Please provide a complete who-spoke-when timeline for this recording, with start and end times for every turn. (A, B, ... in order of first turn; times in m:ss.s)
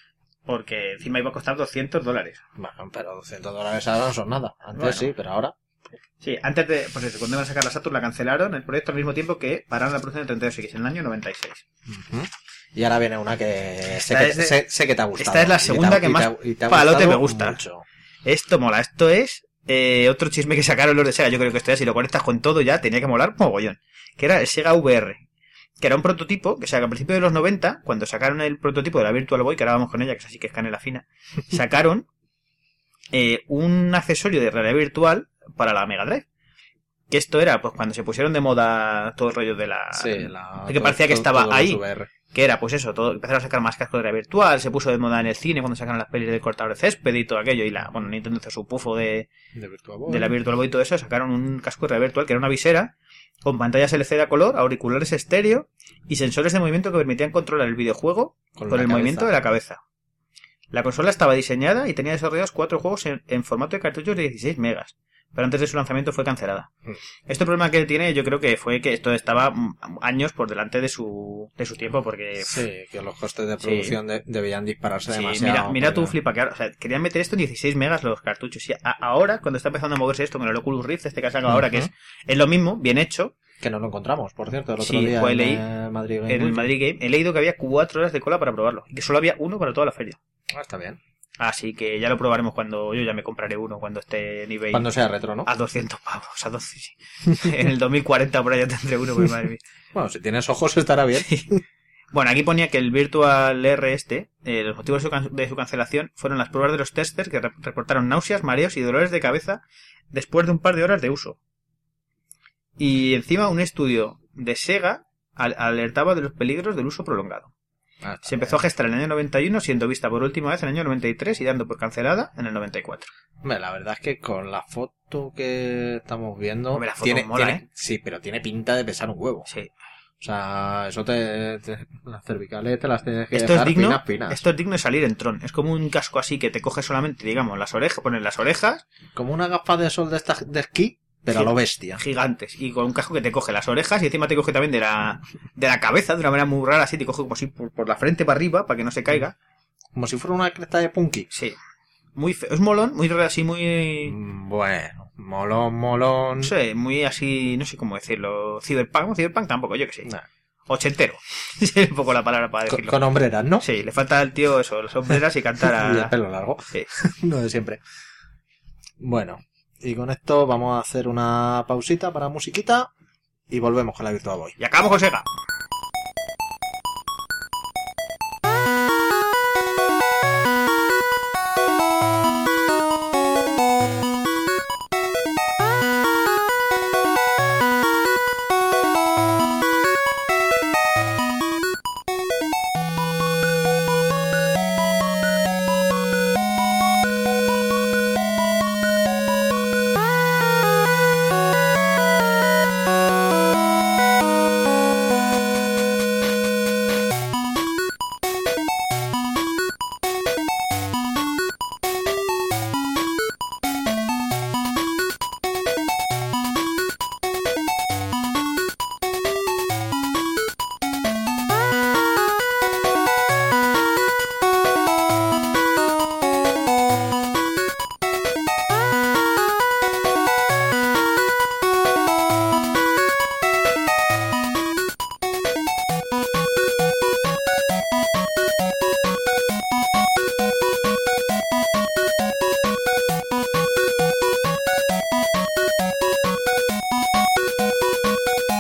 0:00.5-0:02.4 A
0:02.6-0:05.5 B
0:04.8-0:05.1 A
0:06.2-0:11.6 A
0:11.9-0:17.8 B
0:13.9-0:14.6 A
0:15.2-0:17.6 A
0:18.3-0:25.2 A
0:25.8-0:32.1 A
0:33.1-0:36.3 A
0:37.1-0:49.3 A
0:39.9-0:42.1 B
0:49.5-0:50.4 B
0:50.1-0:52.9 A
0:53.4-0:59.8 A
0:58.6-0:59.3 B
1:00.7-1:06.7 A
1:07.3-1:12.6 A
1:12.5-1:16.1 B
1:13.6-1:14.0 A
1:15.1-1:23.4 A
1:21.5-1:21.9 B
1:23.6-1:26.7 B
1:24.8-1:25.6 A
1:26.3-1:30.2 A
1:30.5-1:31.0 B
1:31.4-1:34.9 A
1:34.7-1:35.5 B
1:35.4-1:39.6 A
1:39.9-1:41.6 B
1:42.1-1:51.4 A
1:52.8-1:57.5 A
1:58.0-1:58.6 B
1:58.2-2:03.1 A
2:03.4-2:09.5 B
2:06.7-2:07.6 A
2:10.2-2:14.4 B
2:13.3-2:18.8 A
2:19.2-2:22.0 B
2:21.3-2:29.4 A
2:30.0-2:31.3 B
2:31.3-2:31.6 A
2:32.2-2:34.2 A
2:34.1-2:36.5 B
2:36.4-2:40.1 A
2:40.7-2:43.0 A
2:42.7-2:43.6 B
2:43.6-2:46.1 A
2:45.6-2:47.8 B
2:49.0-2:52.9 B
2:53.5-2:54.6 B
2:54.6-2:55.3 A